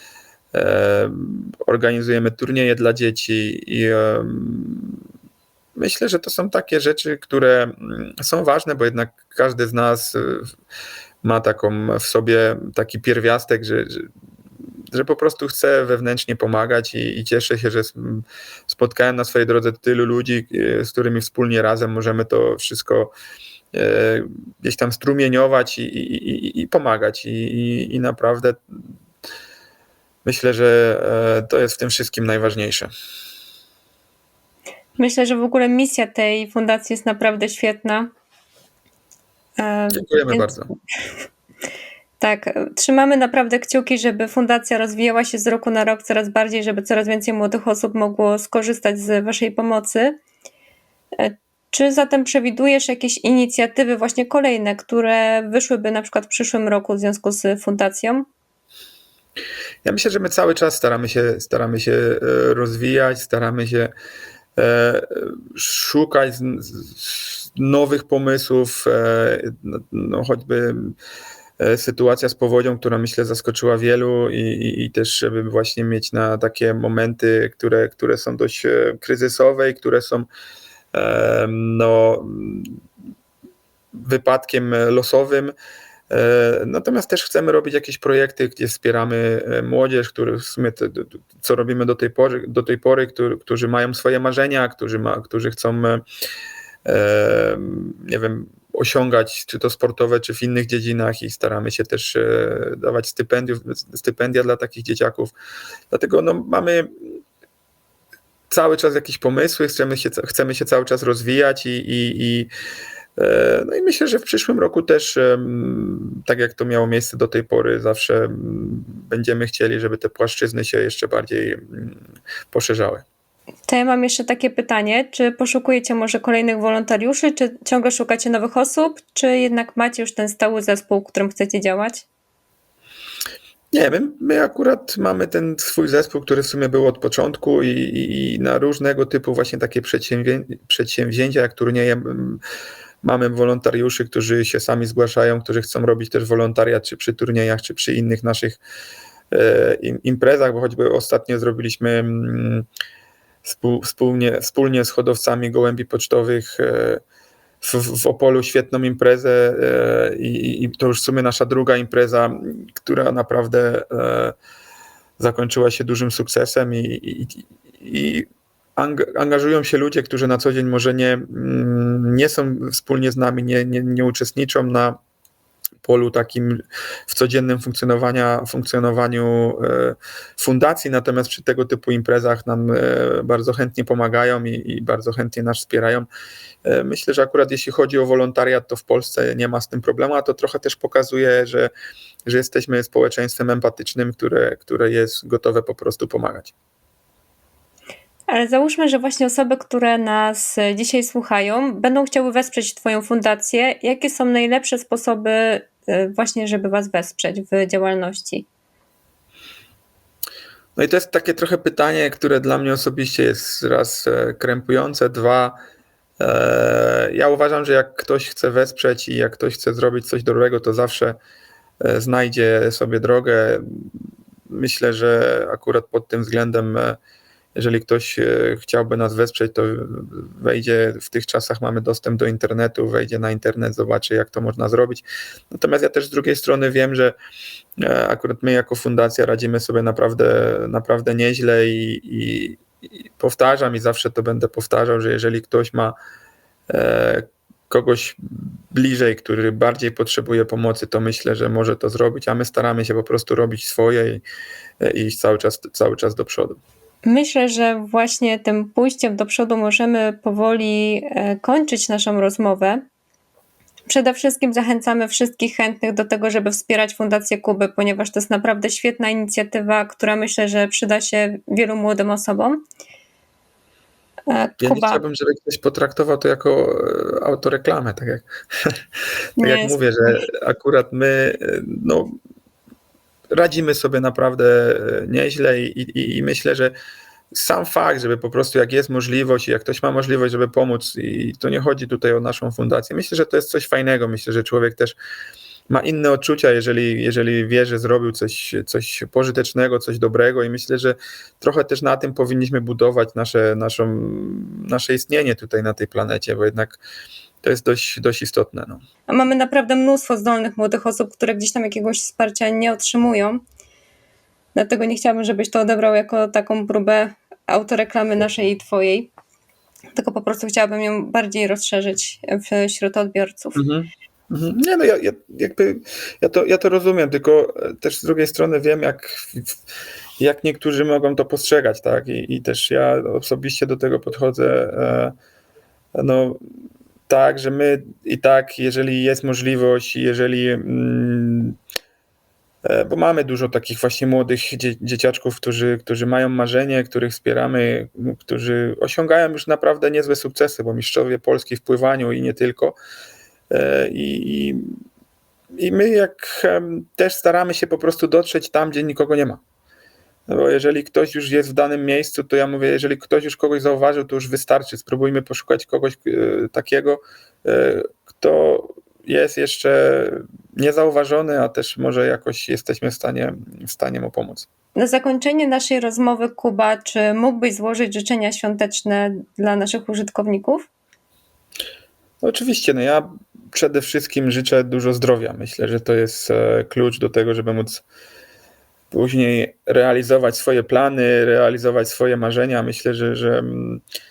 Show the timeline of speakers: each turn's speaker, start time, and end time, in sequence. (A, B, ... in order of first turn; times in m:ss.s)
0:00.5-0:05.0 A
0:05.8-0:10.5 A
0:11.2-0:14.1 A
0:14.9-0:23.1 A
0:23.7-0:28.6 A
0:30.2-0:32.9 A
0:35.0-0:38.1 B
0:39.6-0:40.5 B
0:39.9-0:40.7 A
0:42.2-0:50.2 B
0:51.2-0:58.3 B
0:59.8-1:03.9 A
1:04.6-1:11.0 A
1:11.6-1:20.3 A
1:20.9-1:22.8 A
1:23.9-1:25.5 A
1:26.1-1:36.0 A
1:36.8-1:45.3 A
1:45.9-1:47.2 A
1:48.5-1:52.5 A
1:53.2-2:02.0 A
2:02.5-2:03.0 A
2:03.7-2:12.0 B
2:13.7-2:22.4 A
2:23.0-2:28.6 A
2:29.3-2:32.7 A
2:33.4-2:37.0 A
2:37.6-2:44.4 A
2:45.2-2:55.0 A
2:55.8-3:06.1 A
3:06.6-3:11.7 A
3:12.3-3:16.5 A
3:18.3-3:28.5 B
3:30.8-3:35.6 A
3:36.2-3:41.2 A
3:41.8-3:47.0 A
3:47.6-3:57.1 A
3:57.8-4:06.0 A
4:06.7-4:14.2 A
4:14.8-4:16.6 A
4:17.0-4:22.8 B
4:23.9-4:32.6 B
4:34.3-4:35.0 B
4:34.6-4:38.8 A
4:39.4-4:40.3 B
4:39.4-4:42.2 A
4:43.3-4:46.7 A
4:47.3-4:55.0 A
4:55.7-5:06.8 A
5:07.4-5:08.8 A
5:09.1-5:13.4 B
5:14.6-5:19.1 B
5:20.0-5:23.6 B
5:23.6-5:29.6 A
5:30.2-5:35.2 A
5:36.0-5:36.4 A
5:37.1-5:41.6 A
5:42.6-5:52.8 A
5:53.5-5:54.7 A
5:55.5-5:59.4 A
6:00.3-6:14.5 A
6:14.8-6:20.7 B
6:22.2-6:27.8 A
6:28.9-6:33.8 A